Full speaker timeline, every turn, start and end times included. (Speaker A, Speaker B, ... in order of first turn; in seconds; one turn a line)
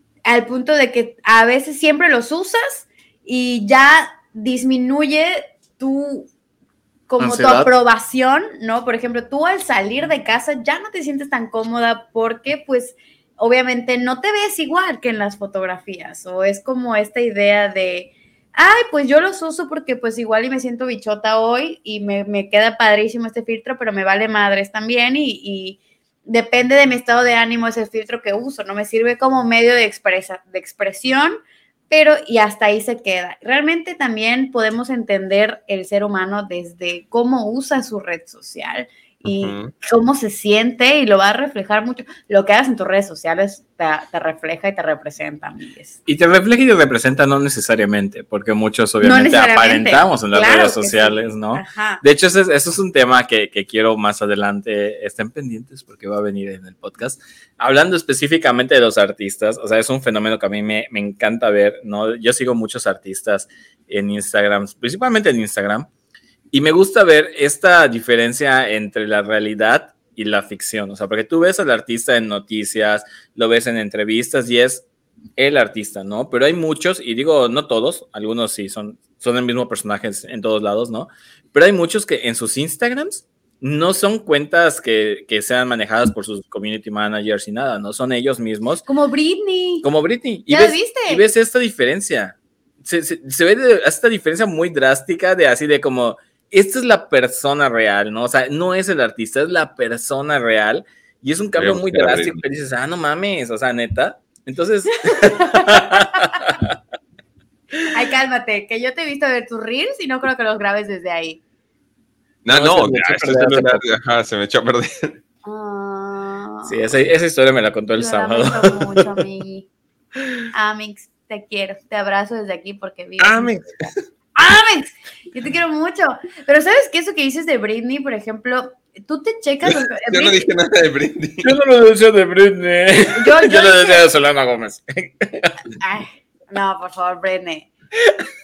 Speaker A: 0.3-6.3
Speaker A: 7.1-31.4
Speaker B: 7.2-7.7
Speaker A: 31.9-46.0
Speaker C: 39.2-39.7
Speaker B: 46.1-65.9
Speaker A: 49.0-52.0
Speaker B: 66.5-74.8
Speaker B: 75.4-88.8
Speaker A: 88.9-89.9
Speaker B: 89.8-106.7
Speaker A: 90.5-91.2
Speaker C: 101.6-102.4
Speaker A: 105.2-106.3
Speaker A: 107.9-111.4
Speaker C: 112.4-115.2
Speaker B: 112.5-113.9
Speaker A: 115.4-116.9
Speaker B: 116.7-119.2
Speaker A: 118.0-119.7
Speaker A: 120.5-130.5
Speaker C: 123.2-123.9
Speaker C: 129.6-131.5
Speaker B: 131.4-135.6
Speaker A: 133.1-134.1
Speaker A: 135.8-137.7